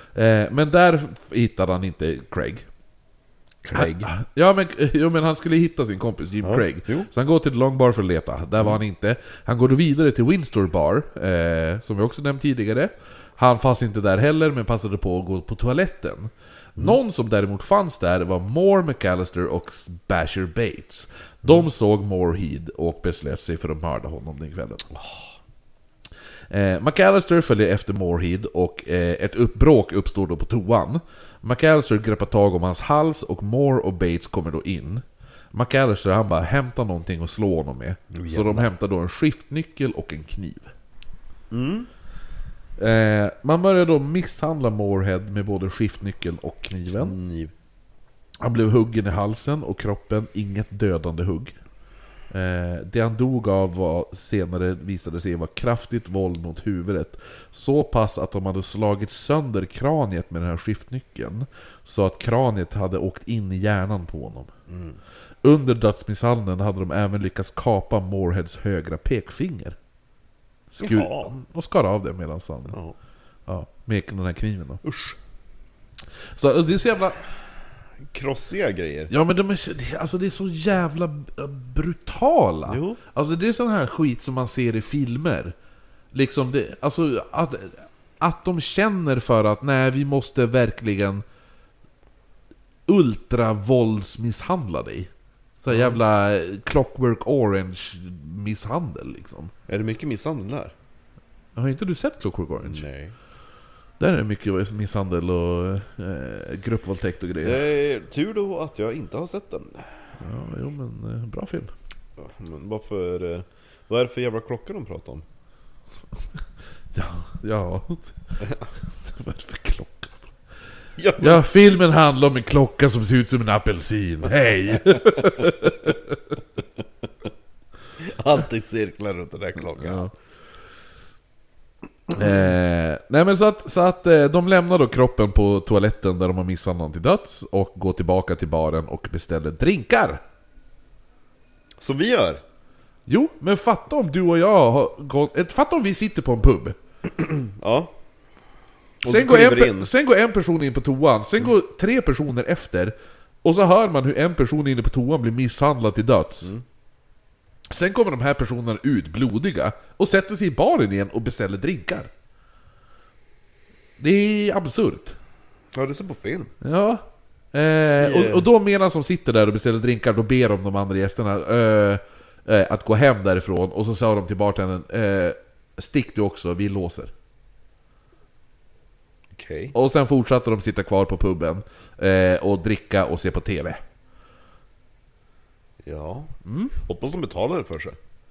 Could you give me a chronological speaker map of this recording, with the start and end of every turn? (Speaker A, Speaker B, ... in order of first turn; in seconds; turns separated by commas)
Speaker A: 0.1-2.7, Speaker B: 3.6-4.1, Speaker A: 3.7-24.9, Speaker B: 6.4-7.1, Speaker B: 24.9-25.3, Speaker A: 26.5-40.7, Speaker B: 38.1-38.7, Speaker B: 41.5-41.9, Speaker A: 42.8-47.2, Speaker B: 47.0-47.5, Speaker A: 48.4-51.6, Speaker A: 52.3-64.5, Speaker B: 64.7-65.0, Speaker A: 65.4-69.8, Speaker A: 70.7-72.8, Speaker B: 70.8-71.3, Speaker B: 72.7-73.0, Speaker A: 73.5-74.8, Speaker B: 74.8-75.2, Speaker A: 76.3-77.2, Speaker B: 78.1-79.1, Speaker A: 79.1-85.5, Speaker B: 82.7-83.0, Speaker A: 86.1-91.2, Speaker A: 92.9-95.1, Speaker A: 95.6-99.5, Speaker B: 95.7-96.0, Speaker B: 99.7-100.7, Speaker A: 101.6-102.8, Speaker B: 102.6-103.2, Speaker A: 104.0-107.6, Speaker B: 107.4-109.9, Speaker A: 110.2-111.7, Speaker B: 112.2-115.2, Speaker A: 116.9-118.1, Speaker B: 118.4-118.7, Speaker A: 119.0-120.2, Speaker B: 121.0-121.4, Speaker A: 121.2-126.4, Speaker B: 124.8-125.7, Speaker B: 128.0-130.1, Speaker A: 129.8-130.1, Speaker A: 132.1-140.2, Speaker B: 132.2-132.5, Speaker B: 141.8-142.4, Speaker A: 143.1-146.8, Speaker B: 147.1-147.9, Speaker B: 149.0-149.9, Speaker A: 149.1-156.5, Speaker A: 157.7-162.1, Speaker A: 164.0-165.2, Speaker B: 165.7-166.5, Speaker A: 166.6-177.1, Speaker B: 168.0-168.5, Speaker B: 179.4-179.8, Speaker A: 179.7-183.8, Speaker B: 185.8-188.0, Speaker A: 186.4-186.7